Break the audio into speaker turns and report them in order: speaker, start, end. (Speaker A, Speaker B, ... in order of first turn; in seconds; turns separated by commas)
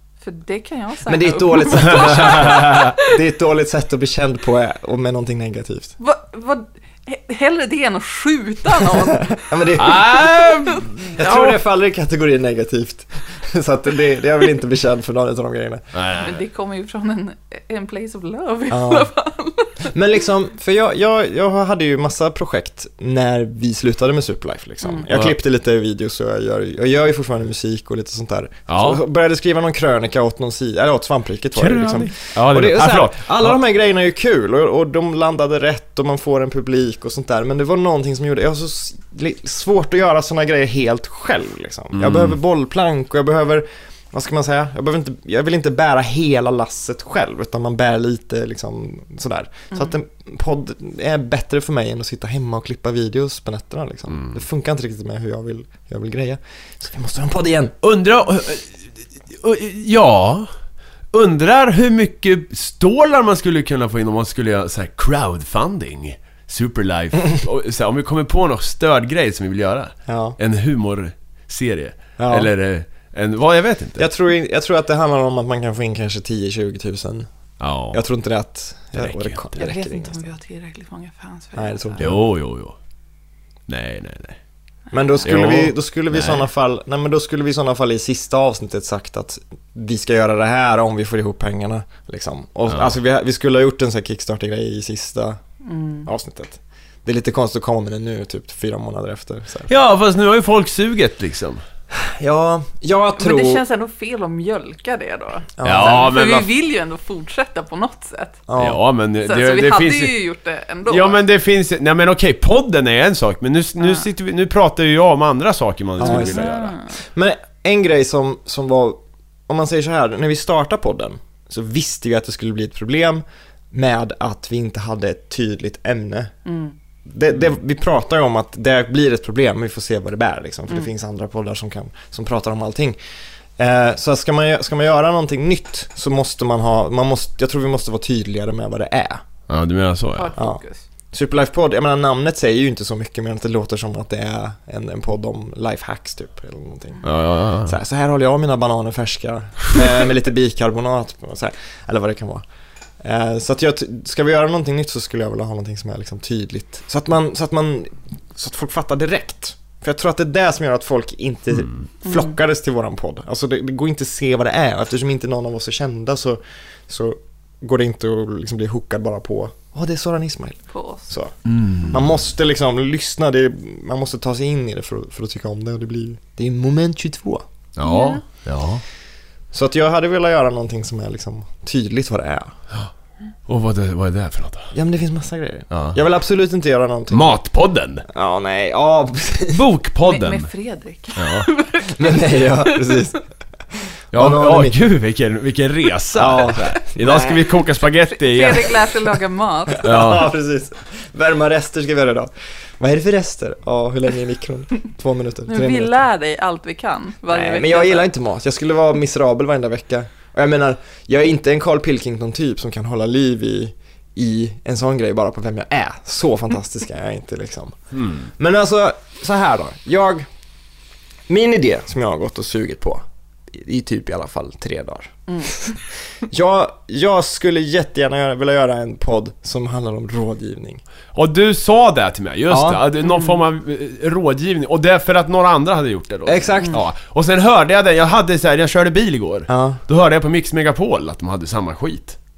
Speaker A: 0.2-3.1, Speaker B: 1.1-6.0, Speaker C: 1.9-2.8, Speaker A: 6.0-9.4, Speaker B: 8.8-10.3, Speaker C: 9.8-11.6, Speaker B: 11.2-15.8, Speaker C: 15.9-16.4, Speaker A: 16.1-19.9, Speaker B: 18.7-19.1, Speaker B: 19.9-57.7, Speaker A: 24.8-25.1, Speaker C: 25.1-25.4, Speaker C: 28.7-29.0, Speaker C: 31.6-33.6, Speaker C: 41.9-42.4, Speaker C: 54.1-54.4, Speaker C: 57.8-58.8, Speaker C: 59.3-60.5, Speaker C: 61.1-74.1, Speaker B: 70.1-70.4, Speaker B: 72.2-72.5, Speaker B: 74.0-77.3, Speaker C: 77.6-78.0, Speaker B: 77.9-80.2, Speaker C: 79.0-79.6, Speaker A: 79.6-82.1, Speaker B: 81.6-82.2, Speaker C: 82.0-82.8, Speaker C: 83.7-84.4, Speaker B: 84.9-95.4, Speaker A: 84.9-85.3, Speaker C: 85.2-86.5, Speaker C: 92.7-92.9, Speaker A: 95.7-96.1, Speaker B: 96.1-99.7, Speaker C: 99.7-101.6, Speaker B: 101.9-103.6, Speaker A: 103.2-108.4, Speaker B: 105.6-106.1, Speaker C: 105.6-106.5, Speaker B: 108.5-108.8, Speaker C: 108.6-110.2, Speaker A: 109.2-111.2, Speaker C: 110.9-116.8, Speaker A: 113.8-114.0, Speaker B: 116.0-116.5, Speaker A: 116.0-116.9, Speaker B: 117.1-126.3, Speaker A: 126.5-126.8, Speaker B: 127.1-133.0, Speaker B: 133.6-139.2, Speaker C: 139.5-140.3, Speaker A: 140.2-140.8, Speaker B: 141.1-147.1, Speaker C: 147.0-147.8, Speaker B: 147.7-152.4, Speaker B: 153.0-171.3, Speaker A: 162.1-162.3, Speaker A: 170.7-171.1, Speaker C: 171.5-171.9, Speaker B: 171.9-177.4, Speaker C: 177.8-178.8, Speaker A: 177.8-178.2, Speaker B: 179.5-182.5, Speaker C: 183.5-184.7, Speaker B: 184.7-187.3, Speaker C: 185.7-186.0, Speaker C: 187.1-188.1, Speaker B: 188.1-189.6, Speaker C: 189.5-190.5, Speaker A: 190.1-193.0, Speaker C: 191.2-191.5, Speaker B: 191.9-193.2, Speaker B: 194.1-194.8, Speaker C: 194.1-198.9, Speaker B: 196.2-197.4, Speaker A: 198.1-200.0, Speaker B: 199.7-206.0, Speaker C: 199.8-200.3, Speaker A: 205.5-208.1, Speaker B: 207.3-217.8, Speaker C: 217.9-218.3, Speaker B: 218.3-220.3, Speaker B: 221.3-230.8, Speaker C: 231.2-242.2, Speaker B: 232.5-232.8, Speaker A: 233.1-233.4, Speaker B: 236.3-236.8, Speaker B: 239.5-239.8